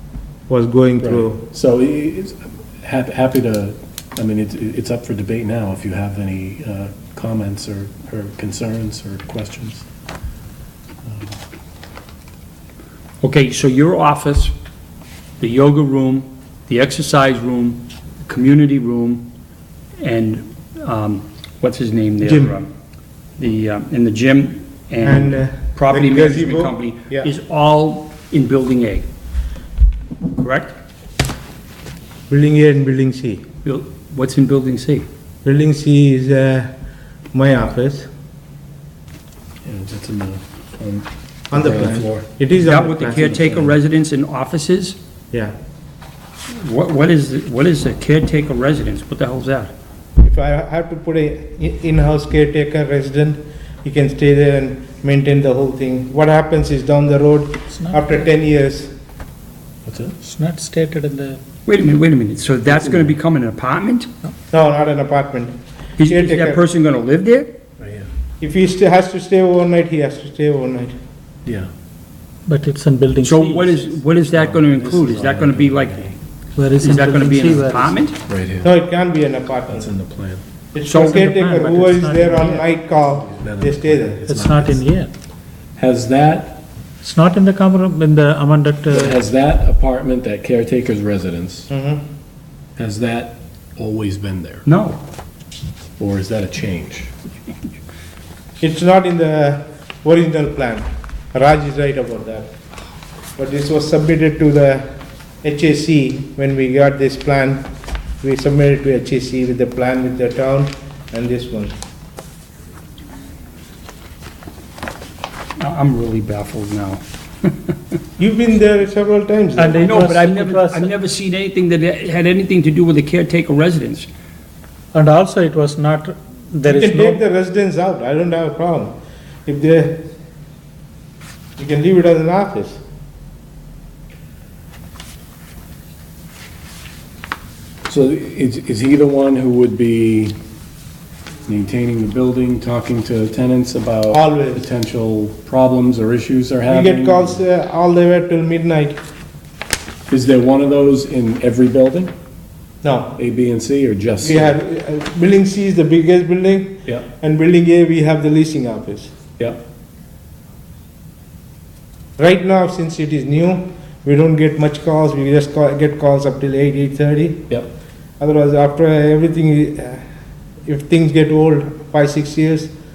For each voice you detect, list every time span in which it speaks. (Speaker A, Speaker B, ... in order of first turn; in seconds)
Speaker A: 0.5-1.4, 22.2-22.5, 25.0-27.3, 32.3-33.4, 35.4-36.7, 37.3-38.1, 41.5-43.4, 50.2-58.9, 64.5-66.6, 68.4-70.9, 78.6-79.9, 80.7-84.2, 91.7-92.0, 98.6-102.5, 103.4-104.9, 105.4-107.7, 108.2-111.7, 118.2-119.9, 126.6-128.9, 129.4-130.0, 131.6-132.8, 144.1-144.6, 146.7-149.0, 152.8-153.2, 154.2-159.1, 162.2-167.5, 168.2-170.0, 170.6-172.7
Speaker B: 1.0-9.9, 11.0-11.4, 39.6-42.3, 43.1-43.8, 59.9-60.2, 62.7-63.1, 67.8-68.0, 74.3-76.2, 78.3-78.8, 79.7-80.4, 83.3-84.8, 85.8-86.6, 88.9-91.7, 92.8-94.6, 96.0-97.1, 137.9-140.3, 141.5-147.4, 150.1-152.1, 153.2-154.5
Speaker C: 13.2-14.5, 15.4-19.3, 20.0-22.7, 23.4-29.1, 30.3-30.7, 33.6-35.1, 42.6-45.0, 46.5-49.7, 61.6-64.1, 66.0-67.5, 73.2-76.1, 76.8-78.2, 94.7-95.0, 115.6-117.7, 119.8-124.1
Speaker D: 57.7-58.2, 60.2-61.4, 72.5-73.7, 76.5-77.9, 80.8-82.7, 84.3-85.1, 87.0-89.2, 119.6-120.9, 124.9-127.2